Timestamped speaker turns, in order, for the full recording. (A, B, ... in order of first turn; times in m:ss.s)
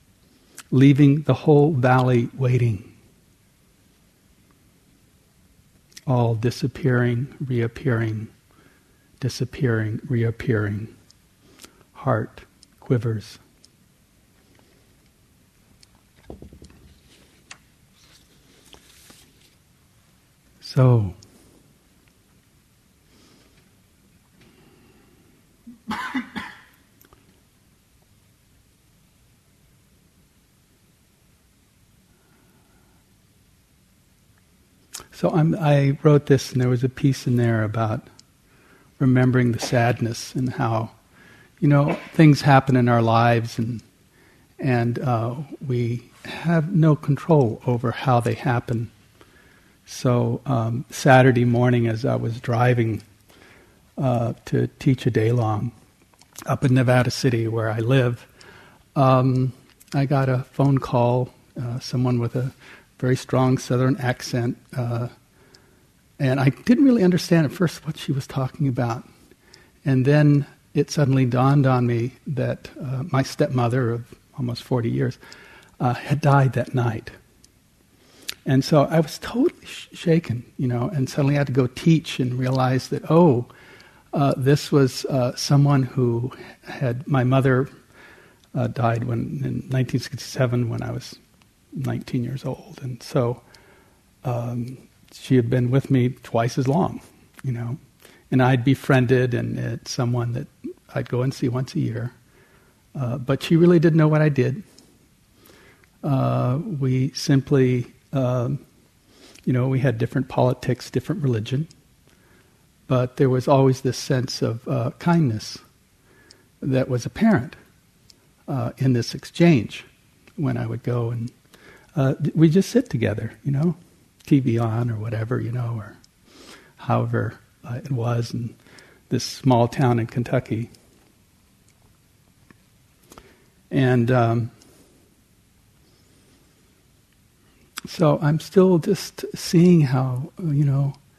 0:00.7-0:02.9 A
0:06.1-0:08.3 A
0:09.2-0:10.9 A
0:11.9-0:13.4 A
0:20.6-0:21.2 A
0:35.1-0:38.1 A
0:39.0-0:40.9 A
0:41.6-0:43.8 A
0:44.6-0:48.9 A
0:49.9-0:53.0 A
0:54.0-0:55.7 A
0:56.5-0:58.3 A
0:58.9-1:05.1 A
1:06.2-1:09.0 A
1:09.8-1:15.2 A
1:15.8-1:17.1 A
1:18.4-1:23.5 A
1:24.1-1:27.7 A
1:28.5-1:31.2 A
1:31.7-1:33.4 A
1:34.2-1:37.8 A
1:38.3-1:42.1 A
1:42.9-1:44.6 A
1:46.0-1:48.6 A
1:49.4-1:51.7 A
1:52.9-1:55.6 A
1:56.6-1:57.6 A
1:58.5-2:01.3 A
2:01.9-2:06.0 A
2:06.8-2:08.6 A
2:09.1-2:10.7 A
2:13.7-2:14.5 A
2:17.9-2:21.0 A